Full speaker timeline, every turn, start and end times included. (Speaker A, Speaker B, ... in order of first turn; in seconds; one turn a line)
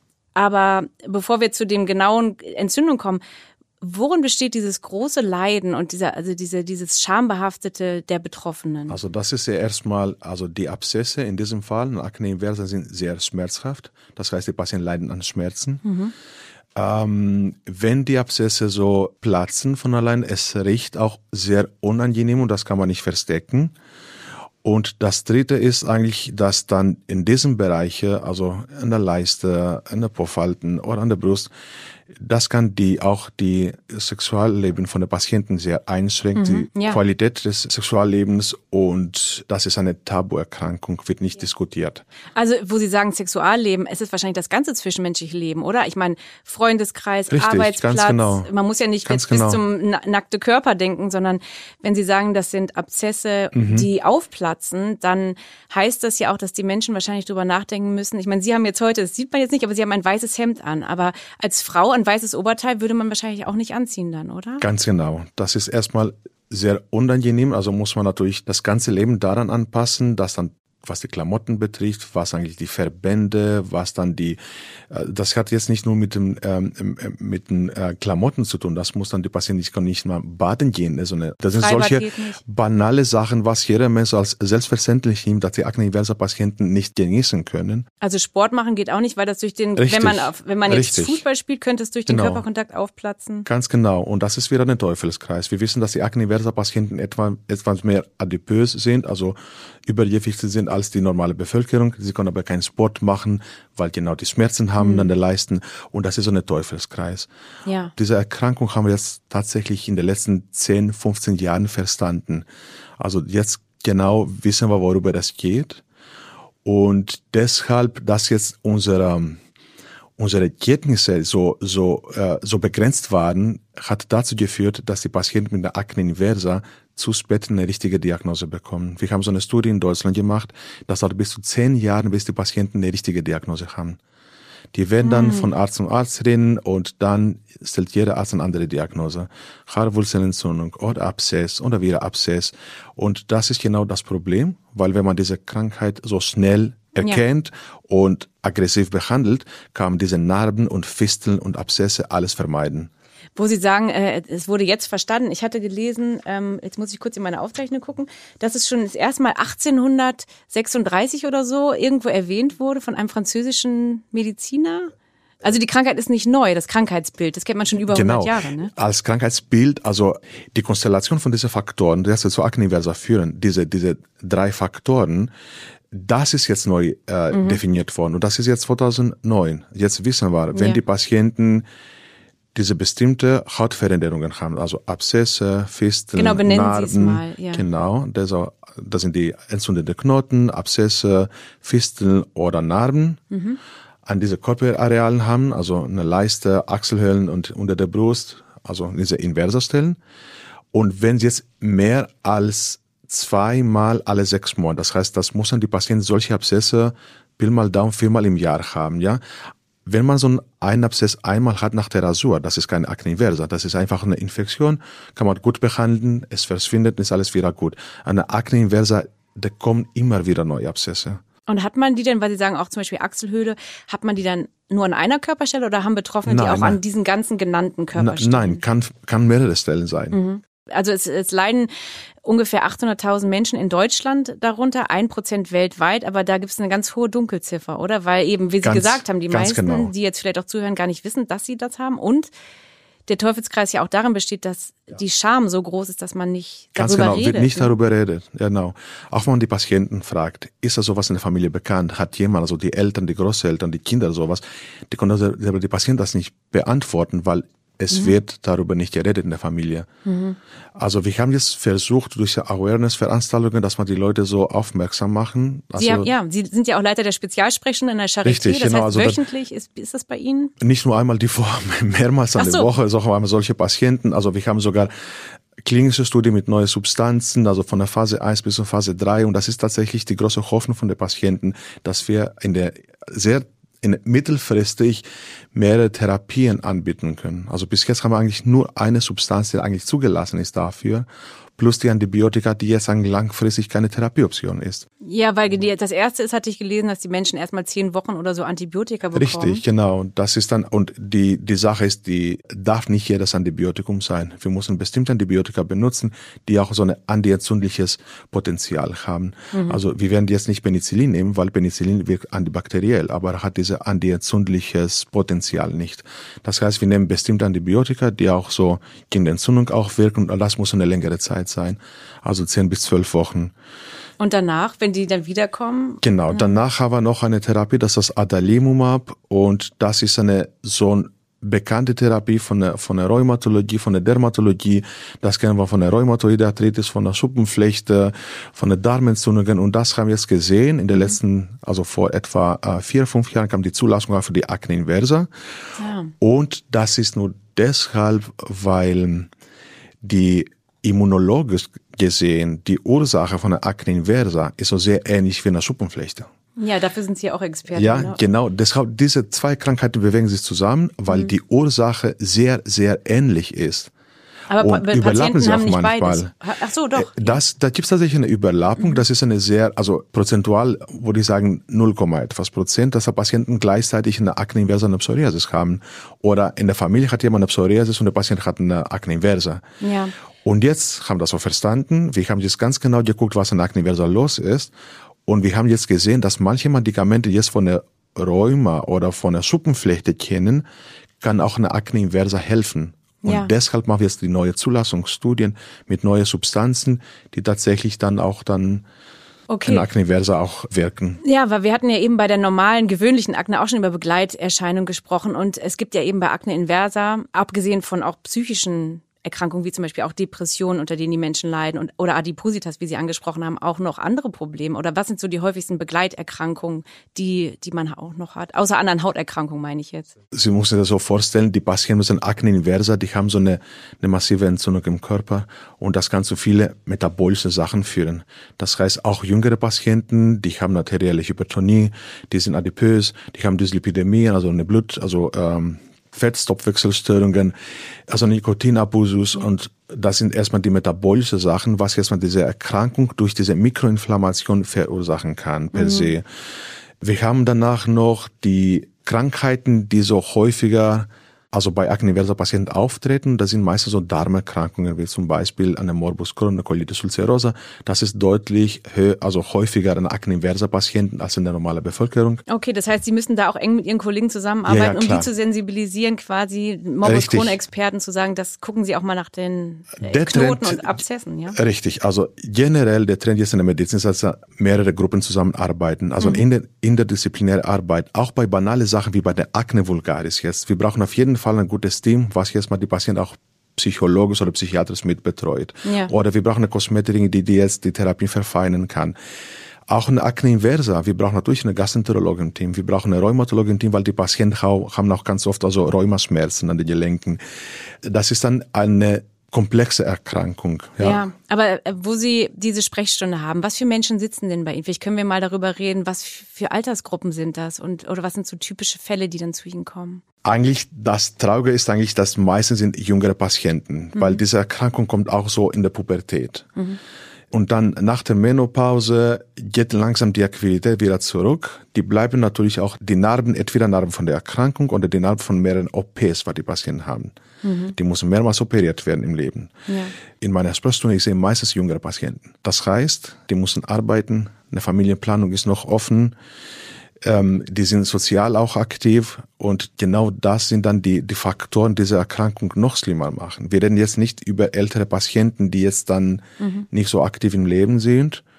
Speaker A: 0.3-3.2
Speaker A: 3.8-9.0
Speaker B: 8.9-15.8
Speaker A: 15.8-16.1
Speaker B: 16.8-23.7
Speaker B: 24.6-31.5
Speaker B: 32.1-42.0
Speaker A: 36.4-37.0
Speaker A: 42.3-64.6
Speaker B: 47.3-48.5
Speaker B: 49.0-49.6
Speaker B: 53.5-53.9
Speaker B: 64.6-74.4
Speaker B: 74.9-87.8
Speaker A: 81.5-82.4
Speaker A: 88.0-93.5
Speaker B: 89.8-91.2
Speaker B: 92.1-92.4
Speaker B: 93.5-107.3
Speaker A: 104.8-105.1
Speaker A: 107.6-107.9
Speaker B: 108.0-112.5
Speaker B: 113.0-115.8
Speaker B: 116.6-119.4
Speaker B: 120.2-134.0
Speaker B: 134.7-152.9
Speaker A: 135.0-135.5
Speaker A: 153.3-168.7
Speaker B: 167.9-175.3
Speaker B: 175.9-181.6
Speaker A: 177.3-177.6
Speaker A: 180.5-180.8
Speaker B: 182.5-193.2
Speaker A: 186.1-187.6
Speaker A: 193.3-193.6
Speaker B: 194.1-200.0
Speaker B: 200.7-209.2
Speaker B: 209.8-221.2
Speaker A: 221.5-228.6
Speaker B: 226.2-226.8
Speaker B: 227.9-230.2
Speaker A: 230.1-231.7
Speaker A: 232.2-242.3
Speaker B: 238.6-239.9
Speaker A: 243.1-247.7
Speaker B: 246.8-259.9
Speaker A: 260.0-260.4
Speaker B: 260.8-266.1
Speaker A: 265.8-270.5
Speaker B: 268.2-269.2
Speaker B: 270.6-294.9
Speaker A: 272.4-272.7
Speaker A: 295.0-299.6
Speaker B: 299.1-323.5
Speaker A: 309.5-309.8
Speaker A: 324.2-326.5
Speaker B: 326.0-345.3
Speaker A: 345.8-346.1
Speaker B: 346.2-349.3
Speaker B: 350.0-356.3
Speaker A: 356.6-358.2
Speaker B: 357.7-363.9
Speaker A: 364.5-367.4
Speaker B: 364.6-366.3
Speaker B: 366.9-379.6
Speaker A: 379.8-380.1
Speaker B: 380.4-384.7
Speaker B: 385.2-390.6
Speaker B: 391.2-398.8
Speaker A: 393.2-393.5
Speaker A: 399.5-399.9
Speaker B: 399.6-401.2
Speaker A: 401.2-420.1
Speaker B: 420.3-437.5
Speaker B: 438.1-446.2
Speaker A: 445.7-446.1
Speaker B: 447.0-462.4
Speaker A: 462.5-471.6
Speaker B: 464.6-465.3
Speaker B: 467.0-467.6
Speaker B: 470.0-470.9
Speaker B: 471.5-489.1
Speaker A: 485.8-486.1
Speaker B: 489.9-497.4
Speaker B: 498.0-501.2
Speaker A: 501.0-510.2
Speaker B: 510.4-516.7
Speaker A: 514.1-514.4
Speaker B: 517.5-527.3
Speaker A: 527.6-528.0
Speaker B: 527.9-529.7
Speaker A: 529.9-530.1
Speaker B: 530.4-536.3
Speaker B: 537.2-548.4
Speaker A: 546.6-546.9